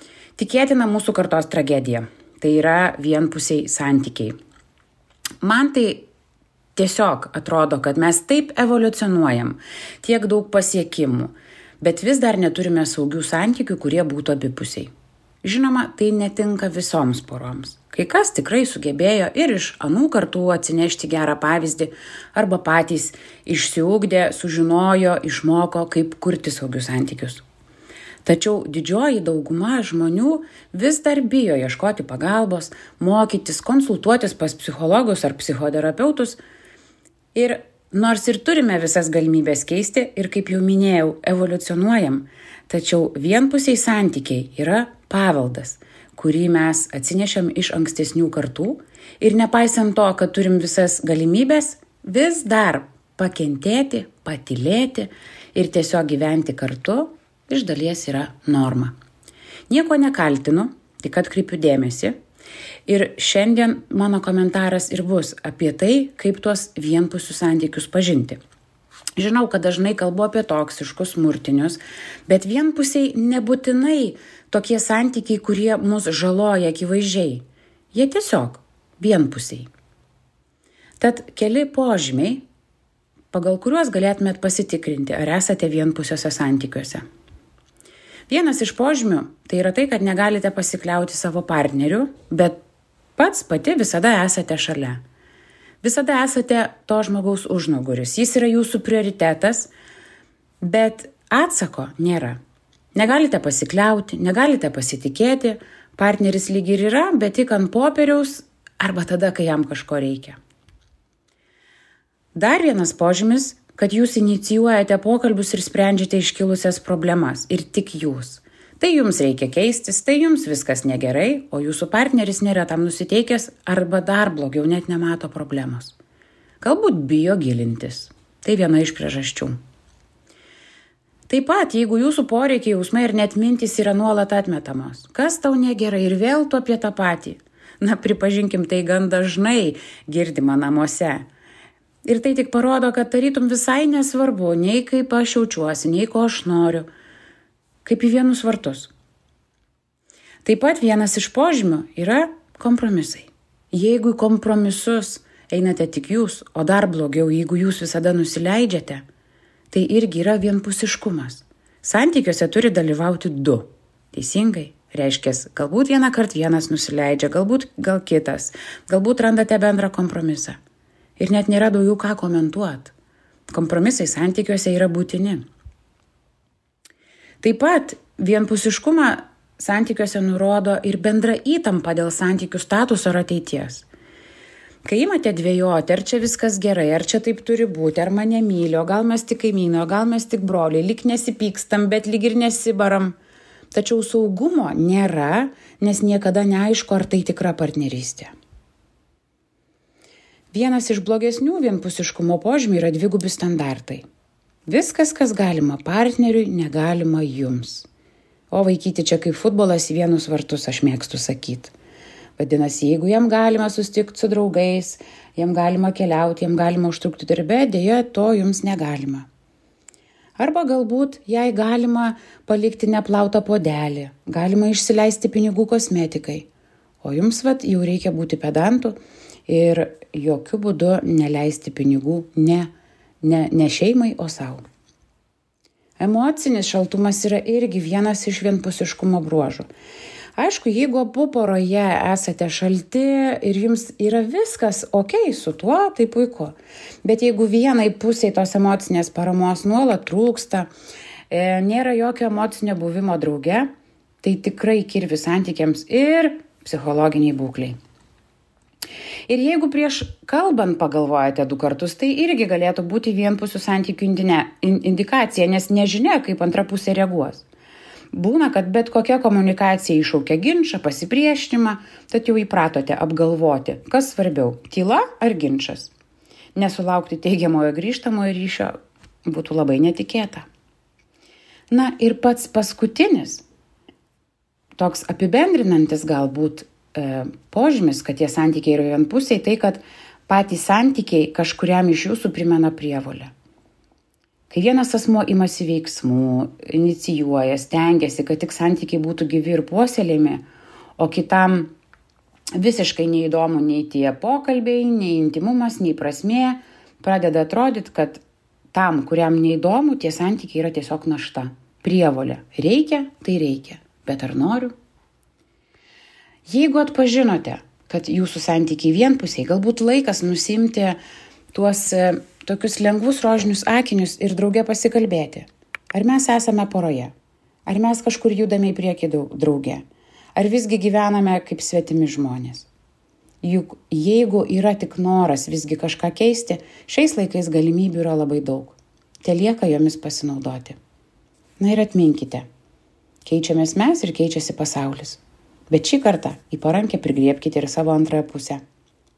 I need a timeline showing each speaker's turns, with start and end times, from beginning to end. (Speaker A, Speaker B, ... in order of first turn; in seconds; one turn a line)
Speaker A: 0.4-4.4
Speaker A: 5.4-6.1
Speaker A: 6.8-14.9
Speaker A: 15.4-27.4
Speaker A: 28.2-36.4
Speaker A: 37.4-58.9
Speaker A: 59.7-62.2
Speaker A: 62.9-68.4
Speaker A: 69.2-79.7
Speaker A: 81.0-82.4
Speaker A: 83.3-87.0
Speaker A: 88.3-92.6
Speaker A: 93.2-95.0
Speaker A: 95.8-99.7
Speaker A: 100.6-102.4
Speaker A: 103.0-110.4
Speaker A: 112.4-126.0
Speaker A: 126.6-129.6
Speaker A: 131.3-141.2
Speaker A: 142.1-146.9
Speaker A: 147.8-148.9
Speaker A: 150.4-159.0
Speaker A: 159.7-170.6
Speaker A: 171.2-172.9
Speaker A: 173.5-175.4
Speaker A: 177.4-183.9
Speaker A: 184.8-193.2
Speaker A: 193.7-198.3
Speaker A: 200.5-204.0
Speaker A: 204.7-207.9
Speaker A: 208.5-211.7
Speaker A: 212.4-219.3
Speaker A: 220.4-226.5
Speaker A: 227.0-229.0
Speaker A: 229.5-232.7
Speaker A: 233.2-234.6
Speaker A: 236.0-239.7
Speaker A: 240.4-250.7
Speaker A: 251.3-253.7
Speaker A: 254.2-257.8
Speaker A: 259.3-267.4
Speaker A: 268.1-275.9
Speaker A: 276.6-278.8
Speaker A: 279.3-280.5
Speaker A: 281.7-283.4
Speaker A: 284.8-293.3
Speaker A: 294.5-300.4
Speaker A: 301.0-301.7
Speaker A: 302.6-308.2
Speaker A: 308.7-314.7
Speaker A: 316.5-321.0
Speaker A: 321.5-327.1
Speaker A: 327.7-329.8
Speaker A: 330.4-332.7
Speaker A: 333.4-340.8
Speaker A: 341.6-342.5
Speaker A: 343.2-348.6